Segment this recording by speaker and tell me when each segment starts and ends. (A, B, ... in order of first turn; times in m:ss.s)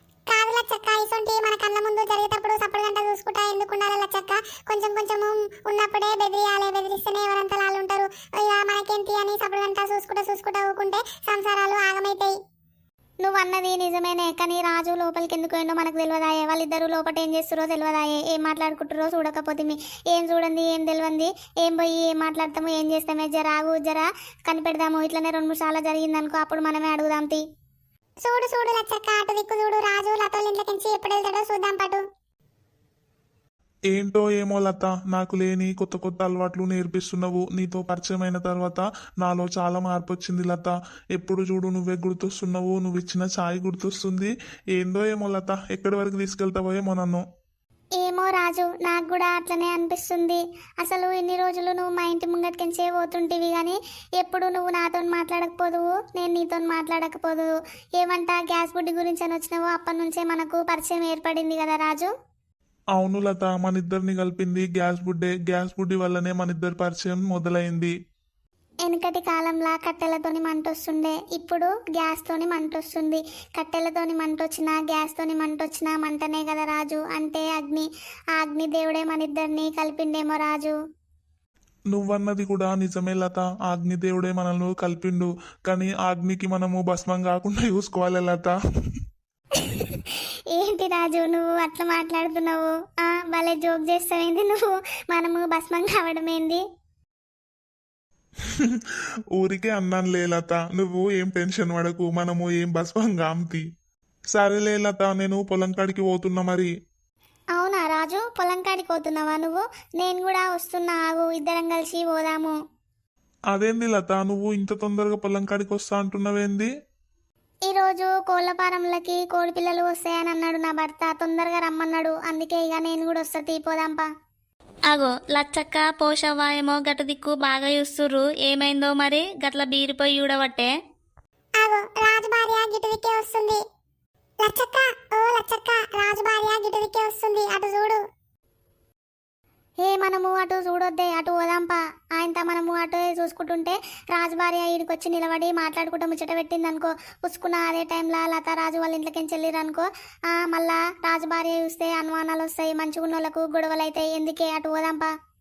0:00.3-0:12.3 A
0:13.2-0:27.4 B
0:28.2-0:32.0 A
0:33.9-0:47.2 C
0:48.0-1:02.1 B
1:03.0-1:07.9 C
1:08.8-1:20.8 B
1:21.9-1:29.0 C
1:29.5-1:36.6 B
1:38.4-1:43.6 C
1:44.3-1:46.7 C
1:47.6-1:52.6 B
1:53.5-1:56.7 C
1:57.7-2:04.1 B
2:04.9-2:10.7 D
2:11.6-2:13.6 A
2:14.4-2:18.0 A
2:19.8-2:35.1 B